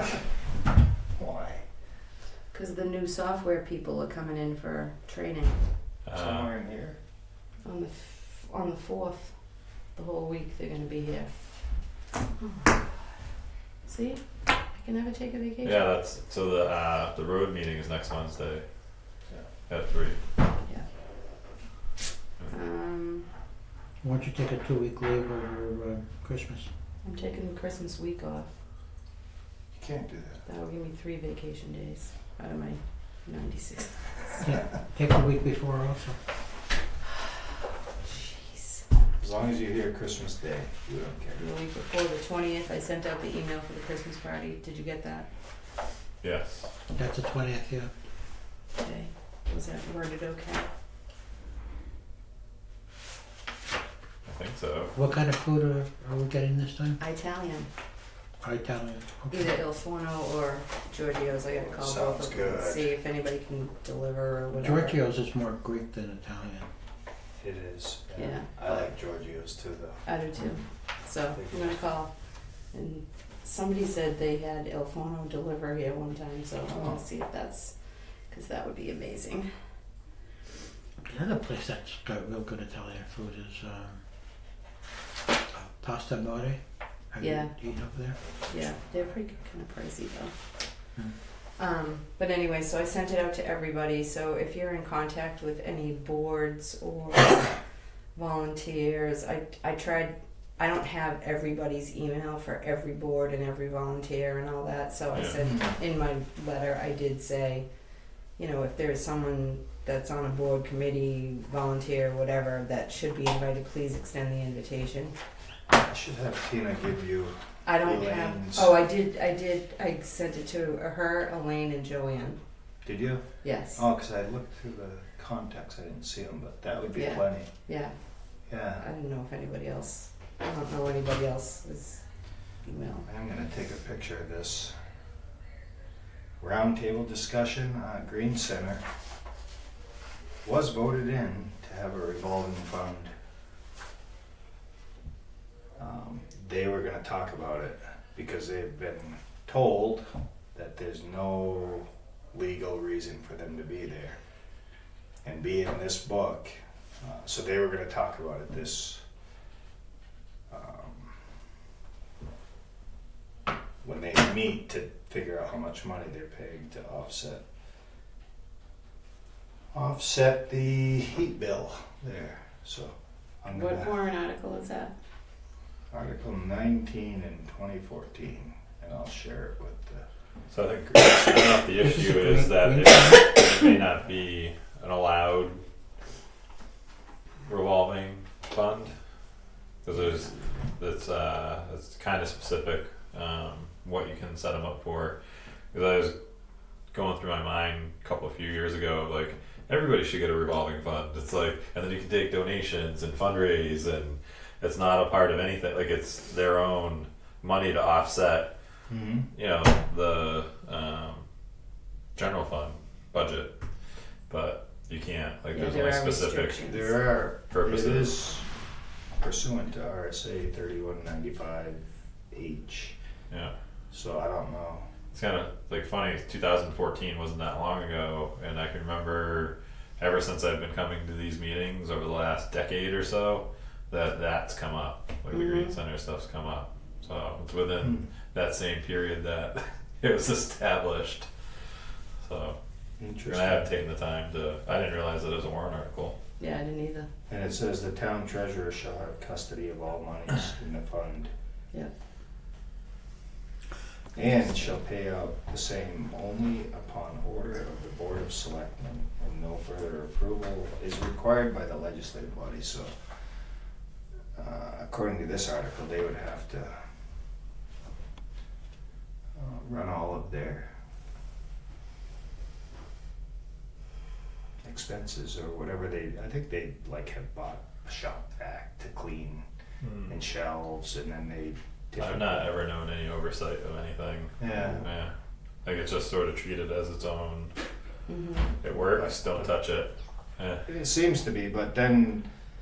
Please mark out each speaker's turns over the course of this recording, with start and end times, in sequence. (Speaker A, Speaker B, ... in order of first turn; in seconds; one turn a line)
Speaker A: 1.1-1.6
Speaker B: 2.5-5.6
Speaker C: 6.0-6.5
Speaker A: 6.1-7.0
Speaker B: 7.6-9.3
Speaker B: 9.9-11.4
Speaker B: 12.4-12.9
Speaker B: 13.8-15.8
Speaker C: 15.6-18.6
Speaker C: 19.7-20.2
Speaker B: 22.5-23.3
Speaker D: 24.0-26.7
Speaker B: 27.0-28.5
Speaker A: 29.7-30.4
Speaker B: 30.4-34.4
Speaker D: 34.4-36.2
Speaker B: 38.0-38.8
Speaker A: 39.2-41.4
Speaker B: 41.4-45.3
Speaker C: 46.2-46.7
Speaker D: 46.9-47.9
Speaker B: 48.8-50.7
Speaker C: 54.3-54.9
Speaker D: 54.9-57.0
Speaker B: 57.0-57.7
Speaker D: 58.4-59.5
Speaker B: 59.3-65.0
Speaker A: 61.6-62.9
Speaker D: 64.6-66.7
Speaker A: 67.4-70.0
Speaker B: 68.1-68.5
Speaker B: 70.0-72.1
Speaker A: 71.3-71.8
Speaker B: 72.7-77.7
Speaker A: 76.7-77.0
Speaker B: 78.3-79.5
Speaker D: 81.0-84.0
Speaker D: 85.5-86.6
Speaker D: 87.1-88.2
Speaker B: 87.2-87.5
Speaker A: 88.2-89.2
Speaker B: 88.5-90.3
Speaker B: 91.6-97.5
Speaker B: 98.1-107.7
Speaker C: 105.1-105.4
Speaker A: 105.4-105.8
Speaker B: 108.4-115.1
Speaker A: 115.7-118.7
Speaker B: 117.6-122.4
Speaker A: 122.8-127.5
Speaker B: 123.4-123.8
Speaker B: 126.9-127.9
Speaker A: 128.5-128.8
Speaker B: 128.8-132.0
Speaker B: 132.6-133.1
Speaker A: 133.0-134.7
Speaker A: 136.4-138.8
Speaker A: 140.4-143.1
Speaker A: 145.8-154.2
Speaker A: 155.2-159.0
Speaker A: 160.5-161.2
Speaker A: 163.8-167.4
Speaker A: 169.7-173.9
Speaker B: 173.5-174.9
Speaker A: 175.9-180.0
Speaker C: 180.5-185.6
Speaker D: 181.8-183.4
Speaker C: 187.4-188.9
Speaker C: 189.8-195.2
Speaker C: 195.7-196.1
Speaker C: 196.9-208.5
Speaker A: 208.9-209.3
Speaker C: 209.3-211.2
Speaker C: 212.2-213.5
Speaker C: 214.3-216.6
Speaker B: 215.5-216.9
Speaker A: 216.6-218.5
Speaker C: 217.5-218.1
Speaker A: 219.2-223.0
Speaker A: 223.9-224.9
Speaker C: 225.1-241.3
Speaker B: 235.3-235.8
Speaker A: 237.8-238.1
Speaker C: 242.2-242.6
Speaker A: 243.0-243.7
Speaker C: 243.2-246.2
Speaker B: 246.4-247.1
Speaker A: 247.3-251.3
Speaker A: 254.1-262.9
Speaker A: 264.3-266.8
Speaker A: 269.3-270.7
Speaker A: 274.6-279.4
Speaker C: 279.8-280.1
Speaker A: 280.1-282.5
Speaker C: 282.0-285.1
Speaker A: 284.4-284.9
Speaker C: 285.6-287.5
Speaker B: 288.1-288.5
Speaker C: 288.6-290.6
Speaker A: 288.9-289.4
Speaker A: 290.6-292.2